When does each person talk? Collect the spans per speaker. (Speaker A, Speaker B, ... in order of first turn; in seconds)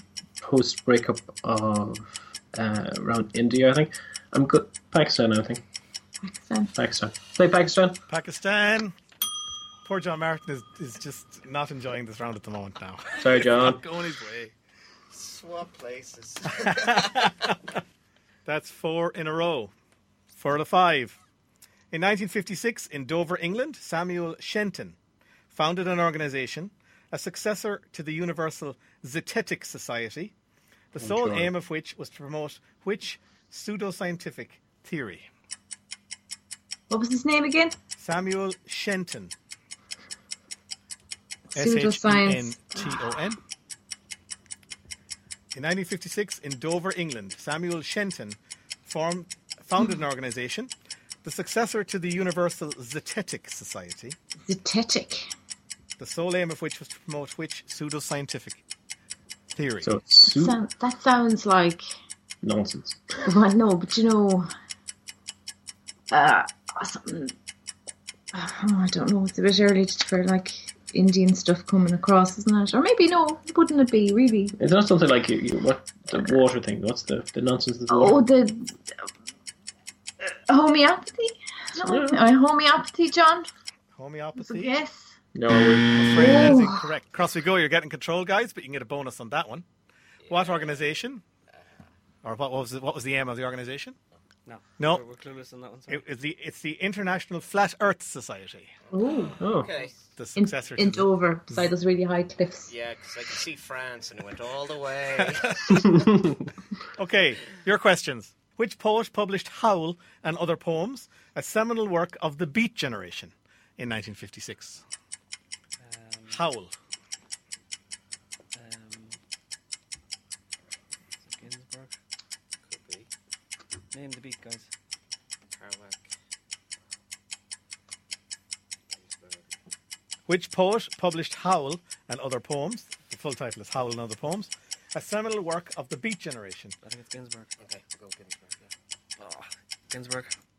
Speaker A: 0.4-5.6, 6.7-8.0, 13.2-13.8, 31.0-31.5, 59.8-60.6, 62.4-63.1, 74.6-78.2, 81.8-82.2, 85.3-86.5, 99.4-99.7
Speaker B: 6.2-6.7, 36.9-37.7, 41.5-42.9, 54.4-55.3, 60.2-61.8, 63.2-64.5, 66.1-67.3, 68.3-74.5, 77.9-78.8, 80.2-83.5, 84.4-85.2, 86.1-86.9, 98.9-99.4, 100.3-102.7
Speaker C: 8.1-8.9, 9.8-14.5, 16.6-17.5, 18.4-19.7, 20.3-21.2, 21.9-25.0, 25.5-30.3, 30.9-35.3, 38.0-39.3, 41.5-43.4, 45.5-50.7, 51.2-54.2, 56.0-58.6, 59.5-60.0, 83.9-84.7, 85.9-89.7, 90.3-91.2, 92.2-94.0, 94.8-95.0, 95.9-98.7, 100.2-101.1, 105.2-105.8, 107.0-114.8, 116.3-116.7, 130.3-136.8
Speaker D: 15.1-17.4, 90.2-90.8, 91.5-91.8, 98.9-100.0, 102.7-105.9, 122.6-123.1, 125.5-126.1, 128.9-129.6, 137.6-138.7
Speaker E: 94.5-96.0, 115.8-116.4, 118.5-119.2, 121.2-121.9, 123.9-124.7, 136.8-137.5, 139.2-140.3